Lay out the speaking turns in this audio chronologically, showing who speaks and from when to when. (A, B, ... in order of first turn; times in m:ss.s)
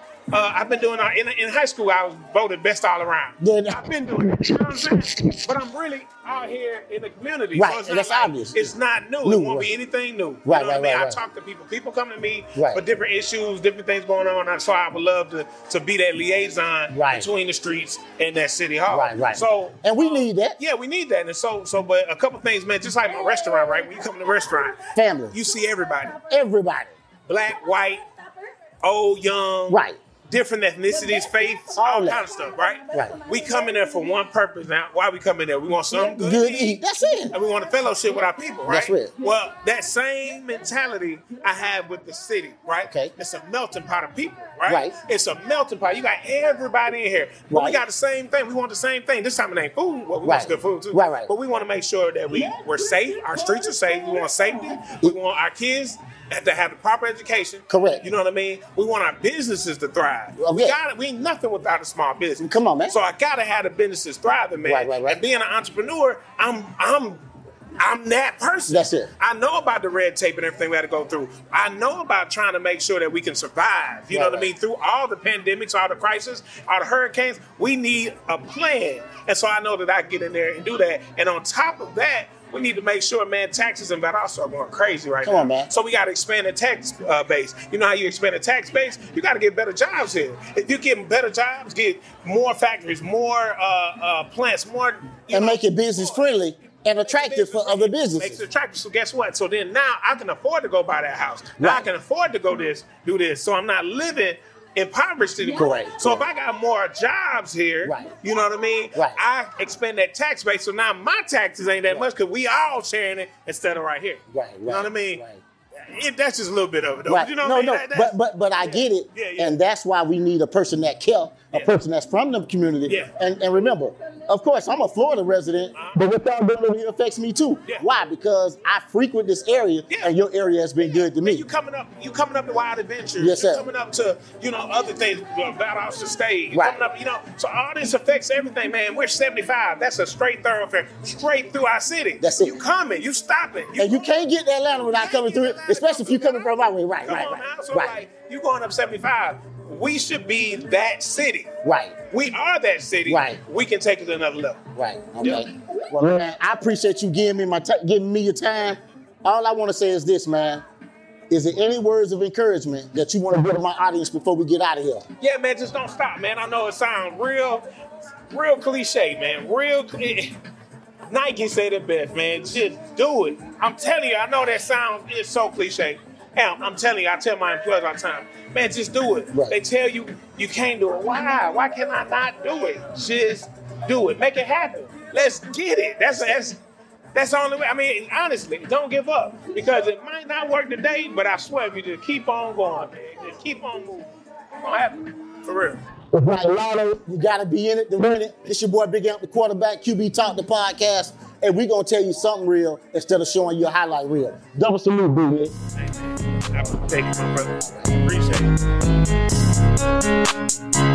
0:00.3-0:26.2 A
0:03.4-0:05.5 B
0:07.5-0:09.7 B
0:10.4-0:11.2 B
0:12.5-0:12.8 B
0:16.9-0:17.3 B
0:18.9-0:20.6 B
0:24.9-0:25.4 B
0:26.3-0:27.0 B
0:27.3-0:28.0 A
0:28.8-0:36.8 A
0:29.7-0:30.0 B
0:31.7-0:32.2 B
0:32.9-0:33.2 B
0:36.0-0:37.4 B
0:37.3-1:07.2 A
0:38.7-0:39.1 B
0:42.9-0:43.1 B
0:44.7-0:45.0 B
0:47.5-0:47.8 B
0:50.2-0:51.3 B
0:57.7-0:58.0 B
1:00.4-1:00.8 B
1:02.4-1:03.0 B
1:04.6-1:05.2 B
1:07.8-1:36.2 A
1:08.7-1:09.1 B
1:14.1-1:14.5 B
1:25.2-1:25.7 B
1:35.3-1:38.4 B
1:37.0-1:55.2 A
1:41.6-1:41.9 B
1:45.5-1:46.3 B
1:47.8-1:48.1 B
1:48.9-1:49.2 B
1:54.3-1:55.4 B
1:55.7-1:59.6 A
1:57.1-2:11.4 B
2:01.5-2:01.8 A
2:02.9-2:03.1 A
2:05.7-2:06.0 A
2:11.2-2:24.0 A
2:13.2-2:13.6 B
2:16.5-2:16.8 B
2:22.2-2:22.6 B
2:23.8-2:28.0 B
2:24.9-2:26.4 A
2:27.0-2:31.5 A
2:31.6-2:32.0 B
2:32.1-2:34.6 A
2:33.0-2:33.4 B
2:34.8-2:40.6 B
2:35.2-2:35.5 A
2:41.3-2:45.0 B
2:45.2-2:47.6 A
2:48.3-2:50.4 A
2:51.1-3:06.6 A
3:07.1-3:15.8 A
3:16.1-3:25.6 B
3:25.8-3:28.5 A